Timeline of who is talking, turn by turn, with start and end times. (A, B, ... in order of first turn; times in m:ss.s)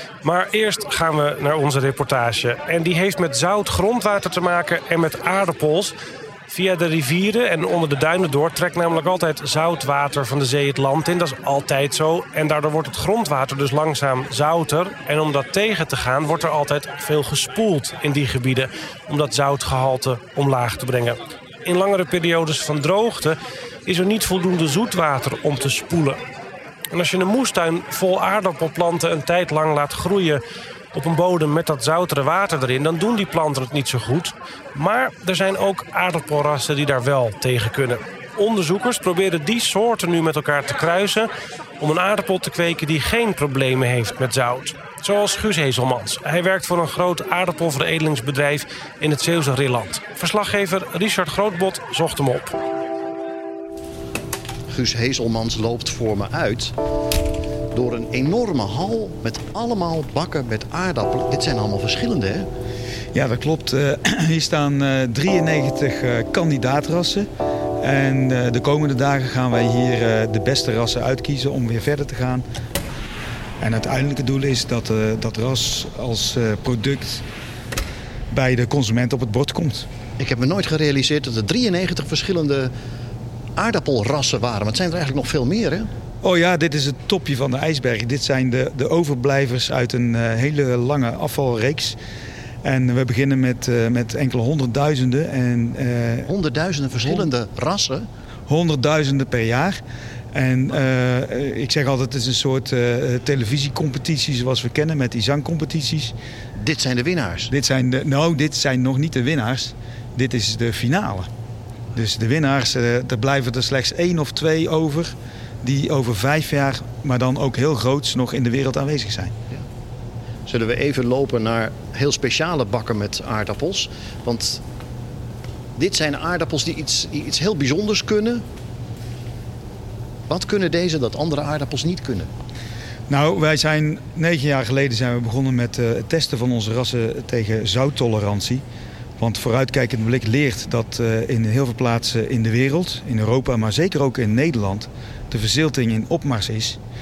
0:00.2-0:06.0 A
0:06.5-0:26.2 A
0:26.9-0:30.4 A
0:30.9-0:52.6 A
0:54.7-0:56.7 B
0:57.7-1:02.5 B
1:03.1-1:07.3 C
1:07.8-1:12.4 C
1:13.6-1:17.2 C
1:18.3-1:19.9 C
1:20.2-1:22.7 B
1:23.6-1:25.9 B
1:26.2-1:32.0 C
1:32.6-1:36.3 C
1:36.3-1:38.0 B
1:38.5-1:39.8 C
1:40.3-1:46.1 C
1:46.6-1:47.5 B
1:47.5-1:51.3 C
1:51.9-1:59.3 C
2:00.5-2:04.6 B
2:05.8-2:08.4 B
2:10.3-2:12.3 B
2:13.1-2:18.6 C
2:19.2-2:26.8 C